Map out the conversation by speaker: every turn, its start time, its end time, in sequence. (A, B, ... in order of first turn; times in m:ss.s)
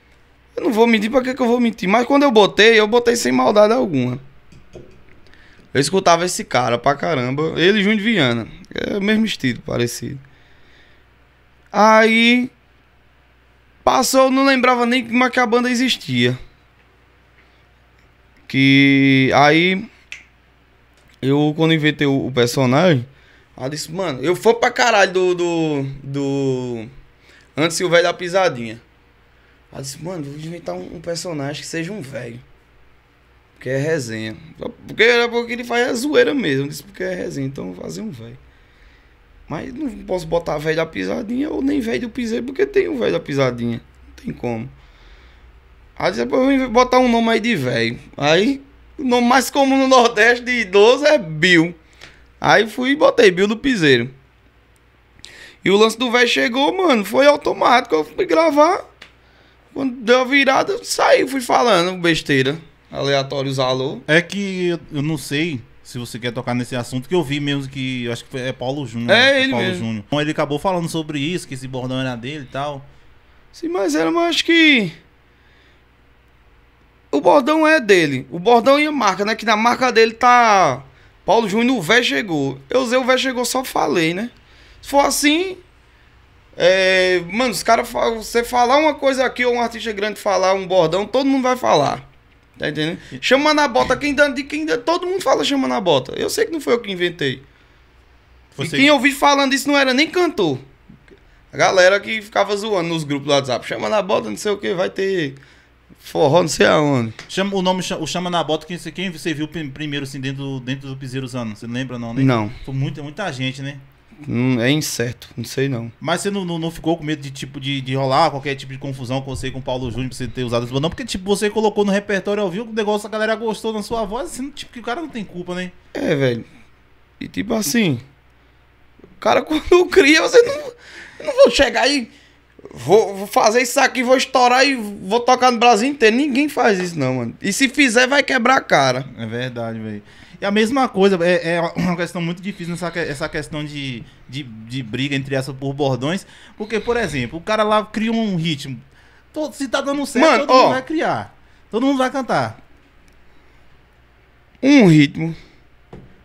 0:00.6-0:04.2 A
0:05.7-0:10.2 A
0:11.7-0:12.5 A
0:13.8-0:16.4 A
0:18.5-0:19.9 A
0:21.2-0:26.9 A
0:27.6-0:28.8 A
0:29.7-0:32.4 A
0:33.6-0:38.4 A
0:39.5-0:44.7 A
0:46.0-0:51.8 A
0:52.4-0:54.1 A
0:55.6-0:58.8 A
0:59.7-1:04.0 A
1:04.1-1:12.9 B
1:09.1-1:09.8 A
1:13.5-1:15.0 A
1:17.1-1:25.6 A
1:26.6-1:32.0 A
1:32.6-1:37.4 A
1:38.5-1:38.9 B
1:38.6-1:40.6 A
1:41.5-1:45.4 A
1:46.0-1:47.2 A
1:47.3-1:53.8 B
1:52.2-1:52.6 A
1:54.3-1:55.9 A
1:56.0-2:05.7 B
2:05.9-2:06.5 A
2:07.2-2:08.0 A
2:09.2-2:12.1 A
2:12.7-2:19.1 A
2:19.1-2:32.6 B
2:30.2-2:30.8 A
2:34.6-2:35.4 A